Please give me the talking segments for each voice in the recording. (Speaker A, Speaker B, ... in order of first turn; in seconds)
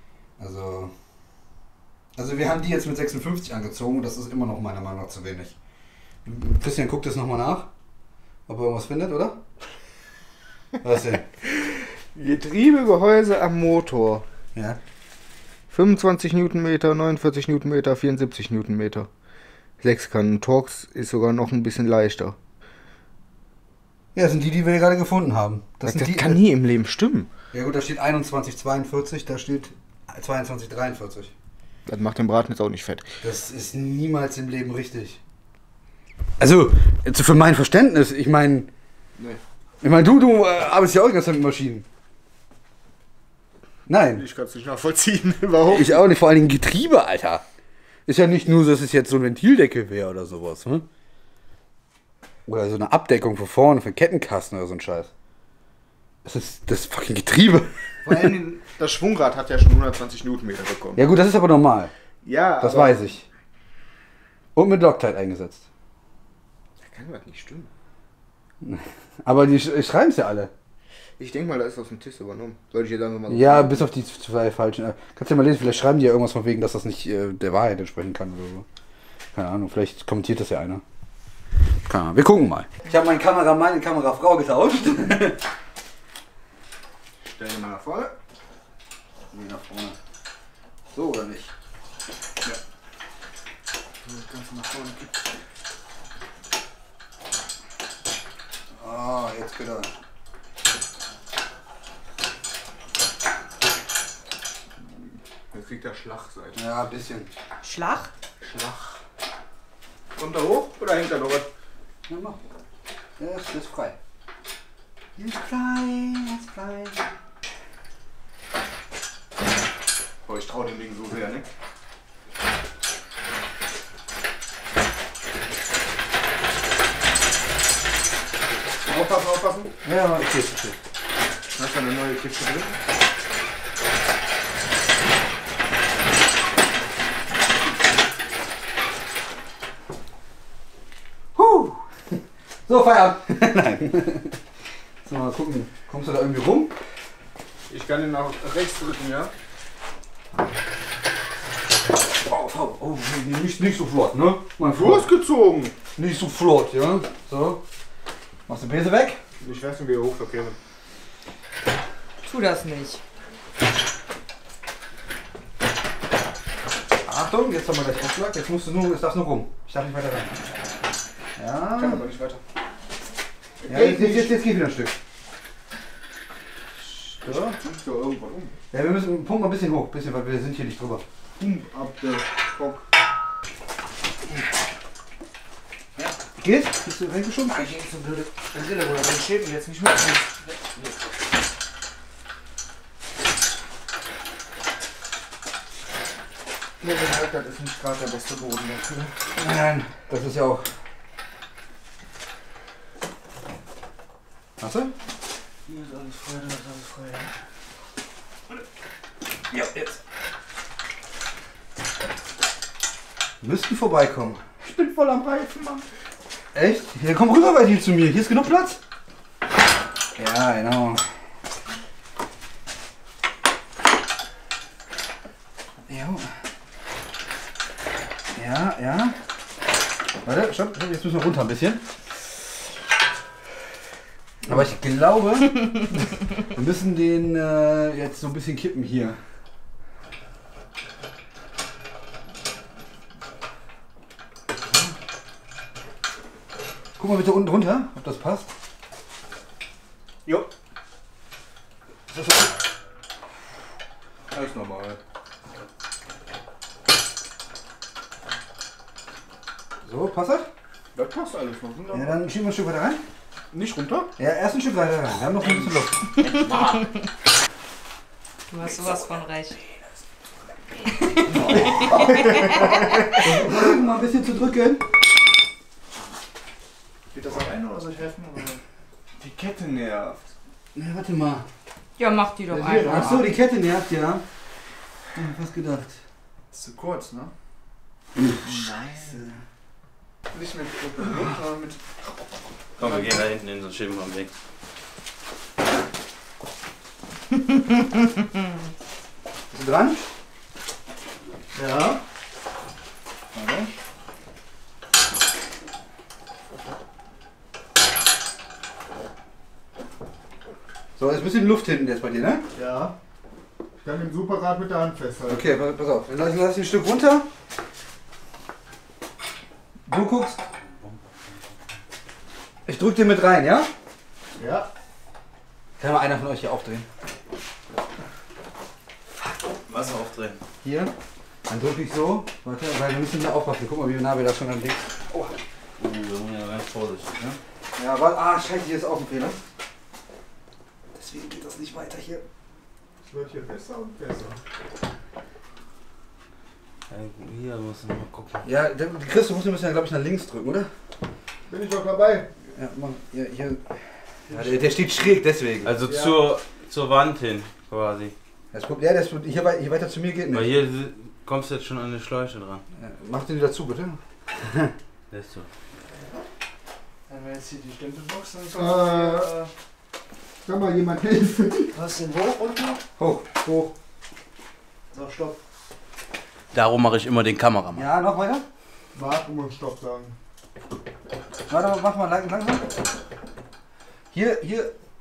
Speaker A: 0.4-0.9, 2.2-5.5, 6.2-7.7, 8.5-9.4, 10.8-11.3, 24.1-26.4, 27.5-31.3, 33.2-35.2, 36.4-38.7, 39.8-41.9, 43.9-44.2, 45.7-47.4, 48.1-50.9, 52.5-55.1, 56.2-58.0, 61.0-61.9, 62.6-63.3, 64.5-65.7, 68.6-70.5, 73.3-78.7, 79.3-80.8, 81.9-85.4, 89.3-90.0, 90.9-91.5, 98.8-99.9, 106.5-107.3, 112.1-112.4, 113.2-114.0, 115.2-117.1, 129.8-130.8, 141.3-144.4, 145.0-146.7, 152.2-155.1, 156.0-157.6, 158.5-159.2, 167.1-170.4, 171.4-172.0, 173.7-174.9, 176.9-177.6, 178.7-181.0, 186.4-187.7, 199.4-200.7, 204.6-204.9, 209.5-210.0, 213.4-214.4, 216.5-218.8, 220.2-221.1, 225.9-226.3, 228.3-229.2, 230.2-231.8, 234.4-239.2, 247.0-248.5, 252.1-252.5, 259.9-260.5, 261.9-263.0, 264.2-266.1, 271.4-272.2, 273.2-274.8, 280.7-281.5, 282.8-284.2, 285.1-286.0, 288.2-288.5, 291.2-291.4, 299.5-300.1, 303.4-303.7, 311.0-312.4, 315.3-317.3, 319.9-320.4, 322.7-323.7, 325.8-326.9, 330.6-330.9, 331.5-335.3, 337.8-339.4, 340.9-342.2, 348.4-350.7, 352.6-355.7, 358.5-360.5, 362.8-364.7, 367.1-368.5, 372.1-373.3, 375.0-375.3, 377.7-378.4, 381.5-382.7, 384.1-384.7
Speaker B: 11.7-14.3, 15.7-19.1, 19.8-22.4, 25.8-27.3, 31.9-33.1, 44.1-46.0, 58.0-61.0, 62.2-63.0, 66.8-67.7, 71.2-73.9, 87.2-88.2, 94.0-95.2, 105.5-106.6, 108.4-109.0, 110.2-111.5, 120.2-121.5, 128.8-129.7, 131.5-132.8, 147.7-149.3, 154.8-155.8, 159.4-160.6, 171.8-172.4, 173.7-174.4, 177.2-178.6, 181.4-182.8, 187.5-191.0, 196.8-199.2, 205.7-207.3, 214.6-215.9, 254.3-255.0, 260.9-262.1, 263.5-264.1, 266.2-266.8, 271.5-272.7, 277.1-278.6, 279.2-280.3, 286.5-287.3, 288.4-289.2, 290.3-291.4, 301.5-302.0, 312.5-312.9, 313.8-315.5, 324.4-324.7, 343.0-344.4, 351.5-352.3, 354.3-354.6, 355.8-356.2, 368.5-369.4, 370.4-371.9, 378.9-380.2
Speaker C: 107.6-108.1, 162.2-163.0, 268.5-269.6, 271.7-272.6, 282.0-283.3
Speaker D: 292.8-294.3, 329.6-330.4, 335.8-337.4, 346.9-348.4, 355.6-358.1, 360.3-362.6, 365.1-365.5, 376.5-377.9